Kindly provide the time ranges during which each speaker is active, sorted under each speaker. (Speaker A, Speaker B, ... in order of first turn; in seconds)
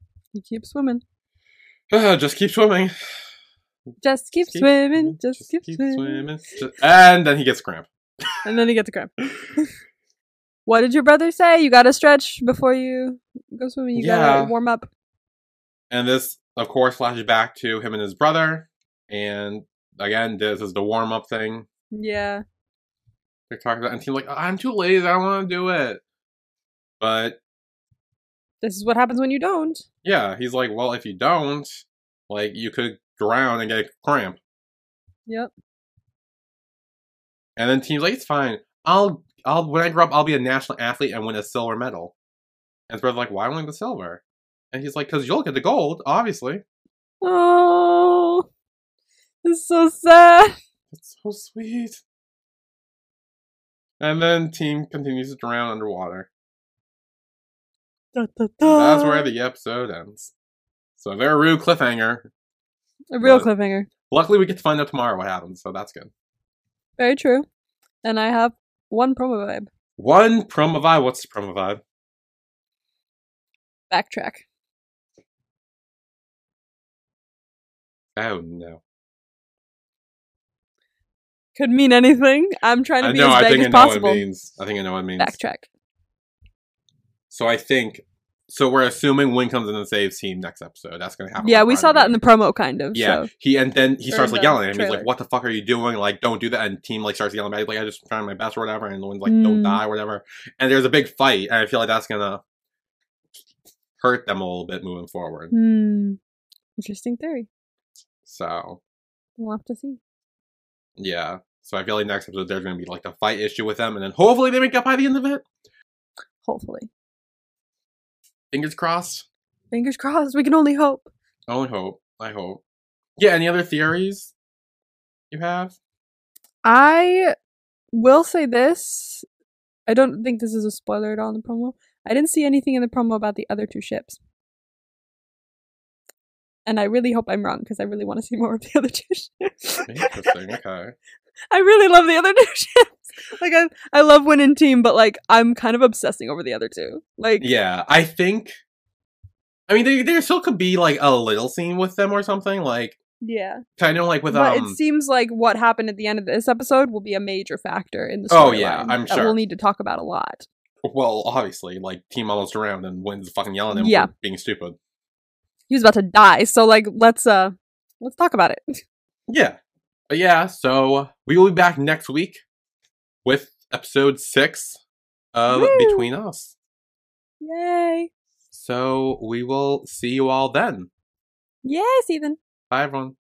Speaker A: 0.3-1.0, 4.0-6.2, 8.4-9.7, 10.7-14.9, 21.9-22.4, 28.6-29.9, 47.2-48.5, 49.4-50.5, 58.1-59.3, 63.1-63.9, 67.0-67.5, 68.0-69.7, 73.9-74.4, 81.6-84.2, 85.2-85.7, 91.4-93.3, 94.1-95.1, 99.2-99.8, 105.5-106.2, 106.8-107.5, 109.4-110.0, 116.4-116.9, 119.7-121.1, 126.7-127.3, 127.9-129.2, 129.9-134.2, 136.7-140.3, 141.5-147.5, 153.2-153.6, 154.3-160.4, 163.7-164.1, 165.7-168.8, 175.5-176.1, 177.4-178.1, 181.6-182.4
Speaker B: 1.9-2.9, 4.5-7.9, 14.0-14.5, 15.9-21.7, 23.5-26.0, 27.0-27.4, 30.0-34.4, 37.6-42.1, 42.9-44.2, 44.7-46.6, 50.9-52.0, 54.0-56.3, 58.6-60.3, 61.0-62.3, 63.2-63.5, 64.1-66.1, 70.0-71.8, 78.2-78.8, 83.0-85.4, 87.3-92.2, 92.9-102.4, 104.0-105.5, 108.3-108.8, 111.0-115.5, 118.5-119.2, 121.5-122.6, 123.2-124.3, 125.3-125.8, 139.8-141.0, 147.4-148.6, 149.7-153.0, 153.8-154.8, 158.3-159.4, 160.8-164.8, 169.3-169.6, 170.1-172.4, 173.2-174.8, 175.3-176.6, 178.5-180.9, 182.7-183.2